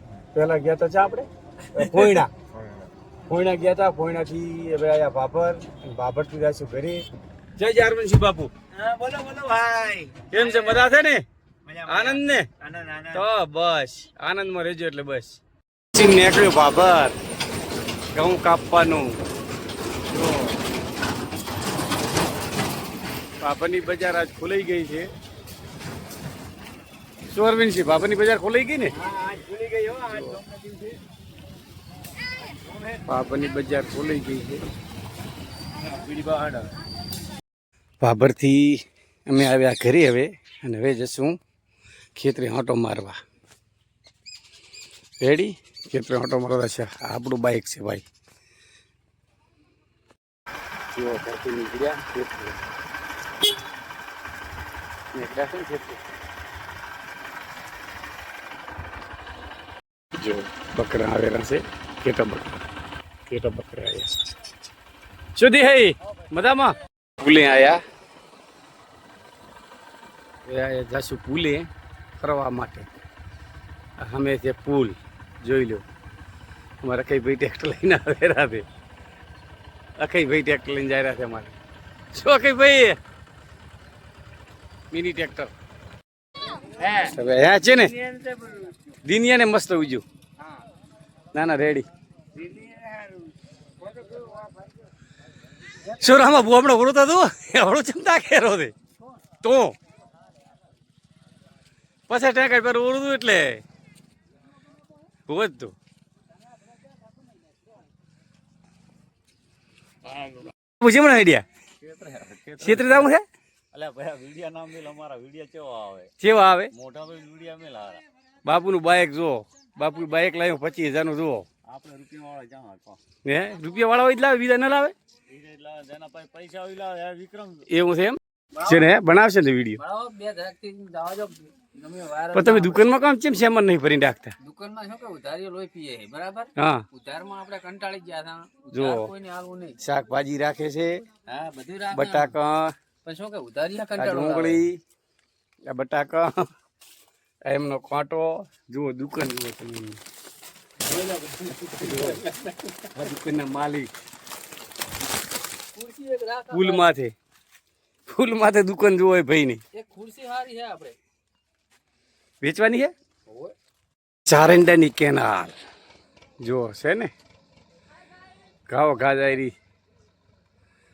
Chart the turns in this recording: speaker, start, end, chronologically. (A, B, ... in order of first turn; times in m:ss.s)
0:00.3-0:02.3 A
0:03.3-0:07.0 A
0:07.6-0:08.5 A
0:08.7-0:10.9 B
0:10.3-0:11.2 A
0:11.7-0:13.3 B
0:11.9-0:12.5 A
0:13.1-0:15.4 A
0:15.9-0:17.2 A
0:18.1-0:19.2 A
0:20.1-0:20.6 A
0:23.4-0:25.1 A
0:27.3-0:29.0 A
0:28.9-0:31.0 B
0:30.1-0:30.4 A
0:32.4-0:33.0 B
0:33.1-0:34.6 A
0:35.8-0:36.7 B
0:38.0-0:41.4 A
0:42.2-0:43.2 A
0:45.2-0:48.1 A
0:50.9-0:52.6 A
0:55.1-0:56.0 A
1:00.2-1:02.6 A
1:03.3-1:04.7 A
1:05.4-1:07.8 A
1:10.5-1:11.7 A
1:12.2-1:12.9 A
1:14.0-1:15.8 A
1:16.8-1:18.6 A
1:20.0-1:21.5 A
1:22.1-1:23.0 A
1:24.9-1:25.5 A
1:26.6-1:28.8 C
1:27.0-1:28.0 A
1:29.0-1:30.0 A
1:31.3-1:31.9 A
1:32.4-1:33.2 C
1:33.8-1:34.5 C
1:35.8-1:38.7 A
1:39.4-1:39.8 A
1:42.1-1:43.6 A
1:45.3-1:45.7 A
1:50.3-1:51.4 A
1:51.8-1:53.1 B
1:52.6-1:53.2 A
1:53.7-1:56.1 B
1:56.2-1:56.7 A
1:56.7-1:58.0 B
1:58.4-2:01.5 A
2:01.7-2:03.0 B
2:03.2-2:05.0 A
2:05.3-2:07.7 B
2:07.7-2:09.8 A
2:08.6-2:08.9 C
2:09.8-2:12.9 C
2:12.3-2:14.4 A
2:14.4-2:19.8 C
2:16.6-2:16.8 A
2:18.7-2:19.1 A
2:19.8-2:21.0 A
2:21.3-2:22.4 C
2:21.9-2:22.7 A
2:23.0-2:24.7 C
2:24.0-2:24.8 A
2:25.7-2:26.5 A
2:27.5-2:30.0 A
2:30.9-2:32.3 C
2:31.8-2:32.2 A
2:32.9-2:33.9 A
2:35.7-2:36.9 C
2:36.5-2:37.1 A
2:38.1-2:39.6 A
2:39.7-2:41.0 C
2:42.4-2:42.9 A
2:43.3-2:43.5 C
2:44.3-2:45.6 A
2:46.4-2:47.1 A
2:48.7-2:49.5 A